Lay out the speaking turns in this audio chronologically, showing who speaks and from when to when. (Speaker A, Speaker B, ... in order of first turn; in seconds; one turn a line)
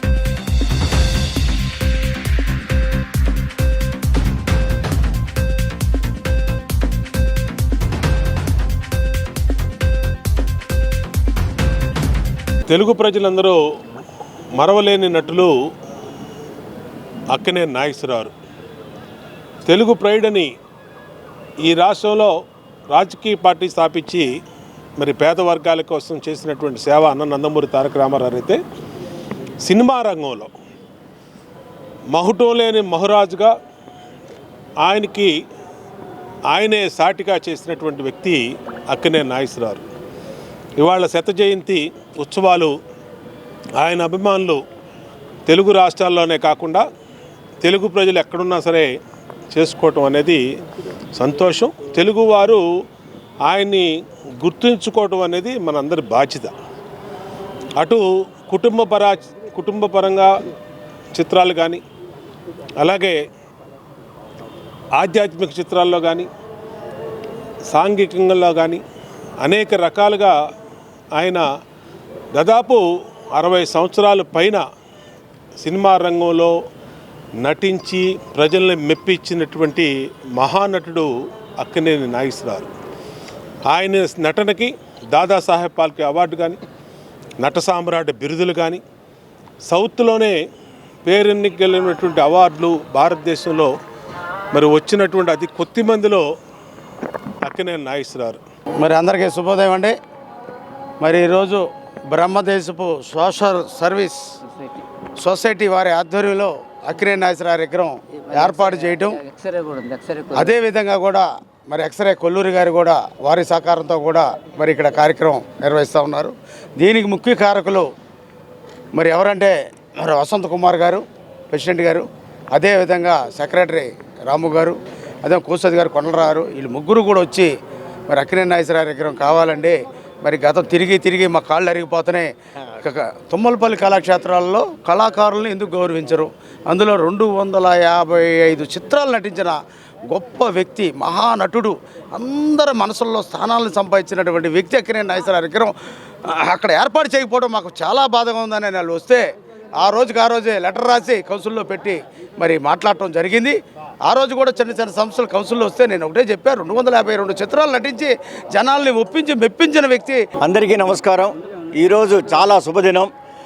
Speaker A: 12.7-13.6
Speaker A: 14.6-15.5
Speaker A: 17.3-18.3
Speaker A: 19.7-20.5
Speaker A: 21.6-22.3
Speaker A: 22.9-24.2
Speaker A: 25.0-28.6
Speaker A: 29.6-30.5
Speaker A: 32.1-33.5
Speaker A: 34.8-35.3
Speaker A: 36.5-39.8
Speaker A: 40.8-42.7
Speaker A: 43.8-44.6
Speaker A: 45.5-46.8
Speaker A: 47.6-48.9
Speaker A: 49.5-50.4
Speaker A: 51.1-52.6
Speaker A: 53.4-53.9
Speaker A: 54.4-56.5
Speaker A: 57.8-60.3
Speaker A: 61.1-61.8
Speaker A: 62.8-63.2
Speaker A: 65.0-66.3
Speaker A: 67.7-68.8
Speaker A: 69.4-70.3
Speaker A: 71.2-71.4
Speaker A: 72.3-72.8
Speaker A: 73.3-74.6
Speaker A: 75.6-76.5
Speaker A: 77.4-82.7
Speaker A: 83.7-86.6
Speaker A: 87.4-88.8
Speaker A: 89.7-90.4
Speaker A: 91.0-93.7
Speaker A: 94.5-96.2
Speaker A: 97.4-98.4
Speaker B: 98.8-100.0
Speaker B: 101.0-104.2
Speaker C: 104.5-104.8
Speaker B: 105.2-109.2
Speaker C: 108.3-110.5
Speaker B: 110.3-117.9
Speaker B: 119.0-127.5
Speaker B: 128.1-139.6
Speaker B: 140.1-145.7
Speaker B: 146.2-149.2
Speaker B: 149.8-160.2
Speaker D: 160.4-163.1